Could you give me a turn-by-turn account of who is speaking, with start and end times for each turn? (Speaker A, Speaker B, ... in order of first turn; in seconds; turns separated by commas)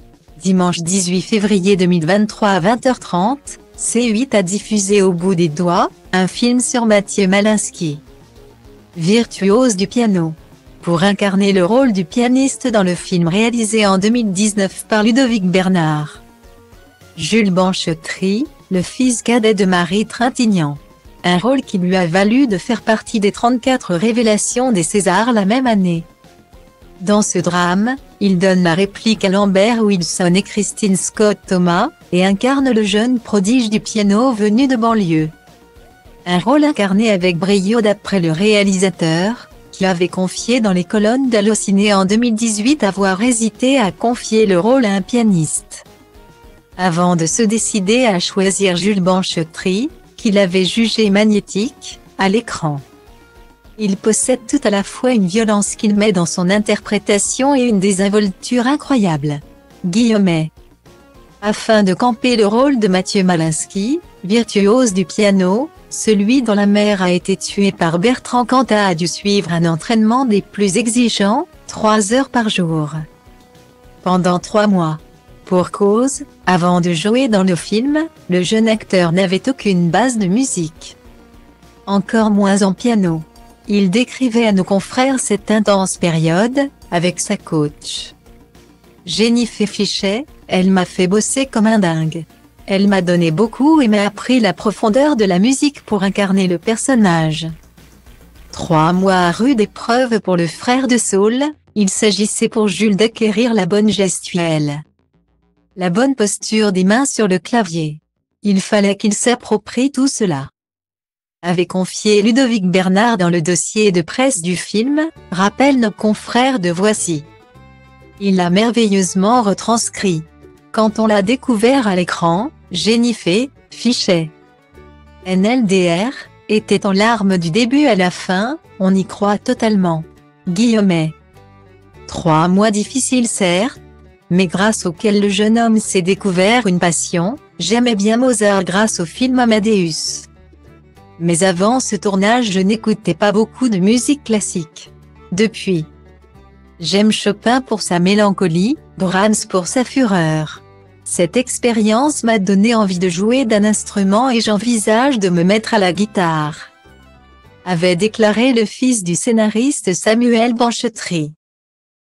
Speaker A: 0.4-8.0, Speaker A: 8.9-16.2, Speaker A: 17.1-26.1, Speaker A: 27.0-35.3, Speaker A: 36.2-45.8, Speaker A: 46.8-52.8, Speaker A: 53.8-60.5, Speaker A: 61.4-73.0, Speaker A: 74.0-81.0, Speaker A: 81.8-88.1, Speaker A: 89.0-97.5, Speaker A: 98.5-104.8, Speaker A: 105.8-110.5, Speaker A: 111.4-117.3, Speaker A: 118.2-124.3, Speaker A: 125.2-131.2, Speaker A: 132.1-133.8, Speaker A: 134.3-140.3, Speaker A: 141.2-145.9, Speaker A: 146.8-156.7, Speaker A: 157.6-161.3